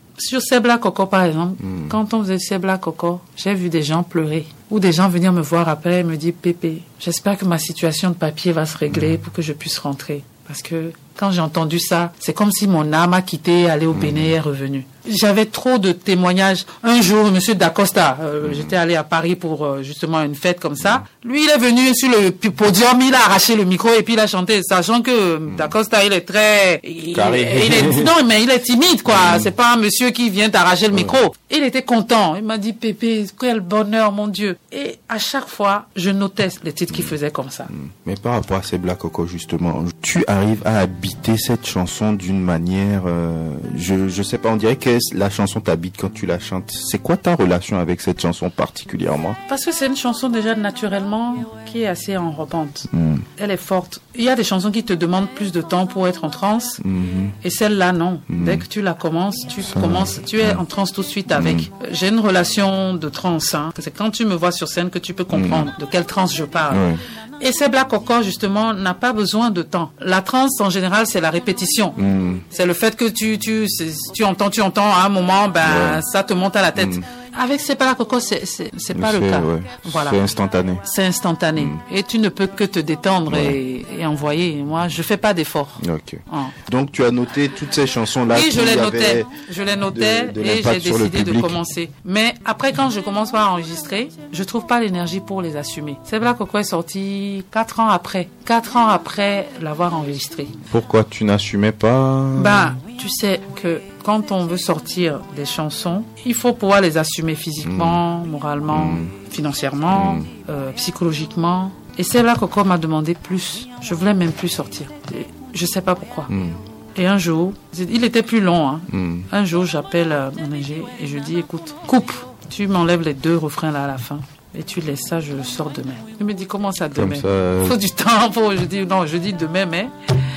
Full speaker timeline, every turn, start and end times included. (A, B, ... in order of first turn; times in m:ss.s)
0:00.2-0:37.7 A
0:01.6-0:02.0 B
0:08.9-0:09.2 B
0:13.9-0:14.3 B
0:18.4-0:18.8 B
0:20.8-0:21.0 B
0:25.5-0:25.7 B
0:27.1-0:28.1 B
0:29.0-0:29.5 B
0:30.9-0:31.2 B
0:36.9-0:37.1 B
0:37.7-0:49.4 B
0:49.5-0:56.8 A
0:52.9-0:53.2 B
0:56.8-0:57.3 B
0:57.4-1:06.8 A
0:58.3-0:58.6 B
0:59.6-1:00.6 B
1:01.3-1:01.7 B
1:05.3-1:05.7 B
1:06.7-1:07.0 B
1:07.4-1:12.0 A
1:12.0-1:12.4 B
1:12.5-1:20.2 A
1:15.6-1:16.0 B
1:16.8-1:17.0 B
1:18.9-1:20.8 B
1:20.8-1:26.6 A
1:21.6-1:21.8 B
1:23.3-1:23.6 B
1:25.8-1:29.3 B
1:28.3-1:40.6 A
1:29.9-1:31.6 B
1:40.7-1:42.7 B
1:42.3-1:56.3 A
1:47.6-1:48.0 B
1:48.7-1:49.1 B
1:49.9-1:50.3 B
1:56.3-1:56.6 B
1:57.0-2:09.9 A
1:58.9-1:59.3 B
2:06.9-2:07.8 B